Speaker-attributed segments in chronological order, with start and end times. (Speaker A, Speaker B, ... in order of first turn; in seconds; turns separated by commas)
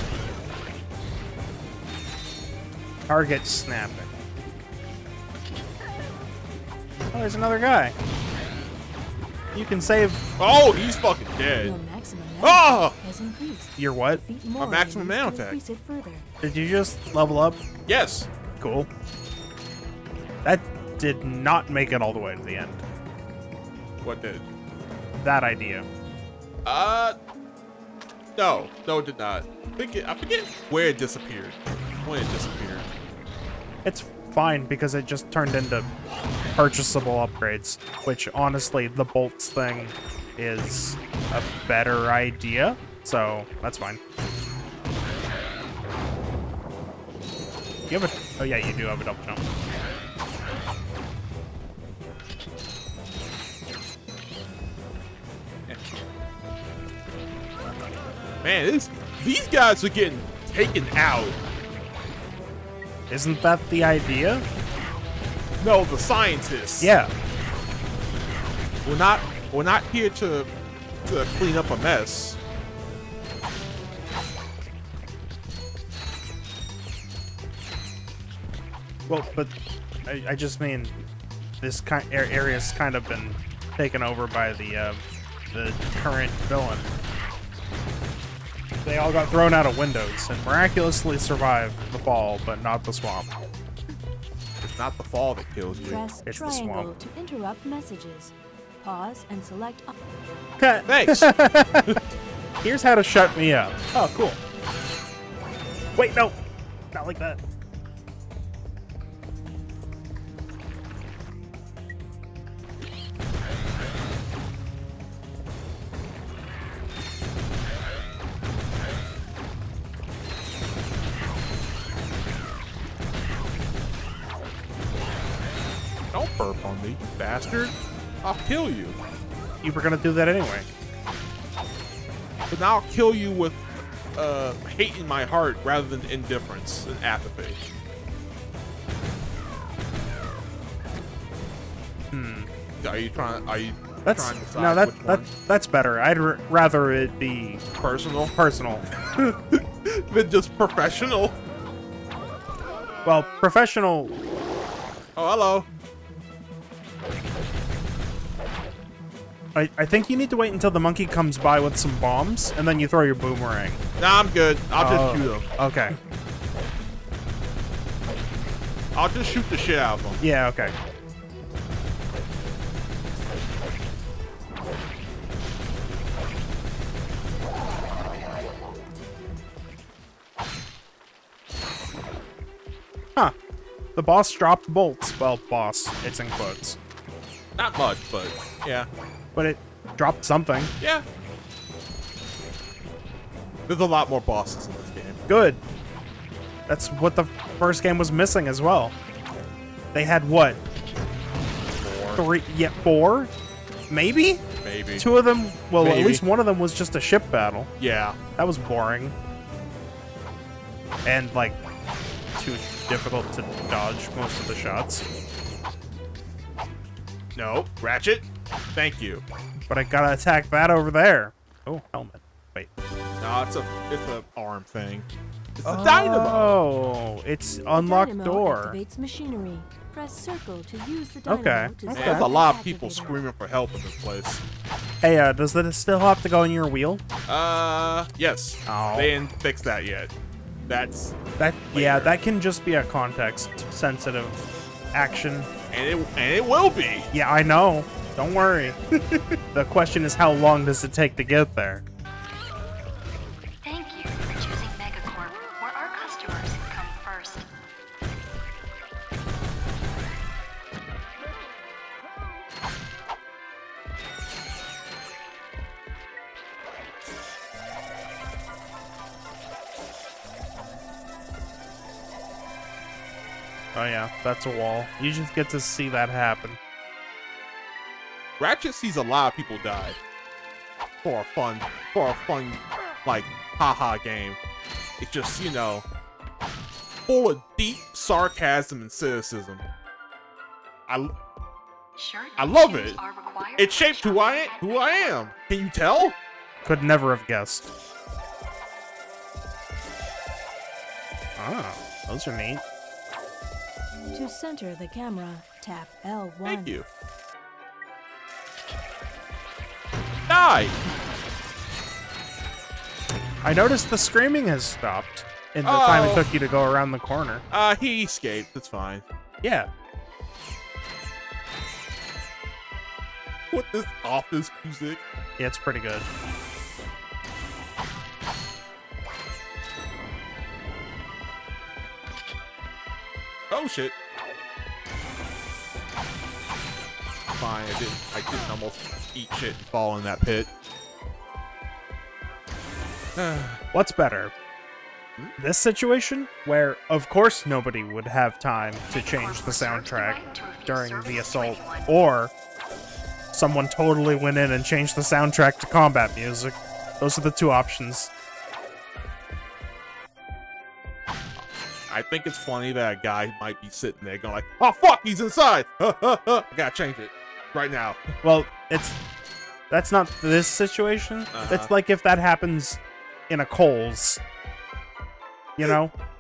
Speaker A: 3.1-4.1, Speaker A: 7.1-8.0, Speaker A: 9.5-10.2, Speaker B: 10.4-11.8, Speaker C: 11.6-16.3, Speaker B: 12.4-13.0, Speaker A: 13.8-14.2, Speaker B: 14.6-15.6, Speaker A: 16.4-17.6, Speaker B: 17.9-18.3, Speaker A: 18.6-18.9, Speaker A: 20.4-22.8, Speaker B: 24.0-24.4, Speaker A: 25.2-25.9, Speaker B: 26.6-27.2, Speaker B: 28.4-32.9, Speaker A: 33.9-35.9, Speaker A: 36.5-44.0, Speaker A: 47.9-49.4, Speaker B: 58.4-61.4, Speaker A: 63.1-64.5, Speaker B: 65.6-66.9, Speaker A: 66.8-67.1, Speaker B: 68.8-70.5, Speaker B: 71.0-72.4, Speaker A: 79.1-79.5, Speaker A: 80.1-80.9, Speaker A: 81.6-86.9, Speaker A: 88.8-93.3, Speaker B: 94.6-96.0, Speaker C: 95.8-99.9, Speaker A: 96.2-96.9, Speaker A: 100.6-102.0, Speaker B: 100.9-101.3, Speaker A: 102.6-104.4, Speaker A: 106.0-106.4, Speaker A: 106.9-107.4, Speaker B: 126.1-129.0, Speaker A: 129.6-130.7, Speaker B: 132.5-133.6, Speaker B: 134.2-137.6, Speaker A: 142.1-142.5, Speaker B: 142.8-145.3, Speaker A: 144.1-147.7, Speaker B: 147.8-148.3, Speaker A: 148.3-148.8, Speaker B: 149.1-151.4, Speaker A: 153.1-154.2, Speaker B: 155.2-155.7, Speaker A: 159.6-163.8, Speaker B: 164.0-165.5, Speaker A: 164.8-166.0, Speaker B: 168.9-170.2, Speaker A: 170.2-170.7, Speaker A: 184.0-186.8, Speaker B: 187.6-188.9, Speaker A: 189.3-190.7, Speaker B: 190.8-191.1, Speaker B: 193.7-195.2, Speaker A: 195.3-195.6, Speaker A: 196.7-198.9, Speaker A: 199.9-200.6, Speaker B: 201.7-202.2, Speaker A: 202.2-203.3, Speaker A: 203.9-204.4, Speaker B: 204.6-205.1, Speaker A: 205.0-207.7, Speaker B: 205.8-206.2, Speaker B: 207.8-208.2, Speaker A: 208.4-209.2, Speaker A: 211.1-211.6, Speaker A: 212.4-215.1, Speaker B: 217.3-219.2, Speaker A: 219.7-222.7, Speaker B: 223.2-225.1, Speaker B: 225.6-226.6, Speaker A: 225.7-228.8, Speaker C: 227.7-233.2, Speaker A: 231.3-232.4, Speaker B: 231.9-234.4, Speaker A: 235.0-237.0, Speaker B: 237.3-240.1, Speaker A: 238.7-239.1, Speaker B: 240.7-241.2, Speaker A: 241.4-244.4, Speaker B: 241.7-242.2, Speaker A: 244.9-245.5, Speaker B: 245.7-247.1, Speaker A: 247.1-248.8, Speaker B: 248.9-249.4, Speaker A: 249.5-251.8, Speaker D: 253.6-257.5, Speaker A: 273.8-276.6, Speaker B: 278.4-280.0, Speaker B: 281.0-284.4, Speaker B: 285.0-285.9, Speaker B: 287.1-289.6, Speaker D: 292.0-295.3, Speaker B: 292.4-293.0, Speaker B: 293.6-296.1, Speaker A: 296.6-297.7, Speaker A: 301.4-302.6, Speaker C: 304.1-306.8, Speaker B: 306.4-306.9, Speaker B: 310.3-310.8, Speaker A: 313.4-317.4, Speaker B: 315.6-316.3, Speaker B: 317.5-319.0, Speaker A: 319.4-319.7, Speaker B: 323.5-325.0, Speaker A: 325.4-326.1, Speaker B: 333.5-333.9, Speaker B: 337.4-340.5, Speaker B: 343.2-343.6, Speaker A: 343.7-344.3, Speaker A: 345.4-352.3, Speaker D: 348.9-352.0, Speaker A: 353.3-358.1, Speaker B: 361.9-368.1, Speaker A: 368.2-369.0, Speaker A: 369.7-374.2, Speaker B: 371.3-371.7, Speaker A: 375.6-375.9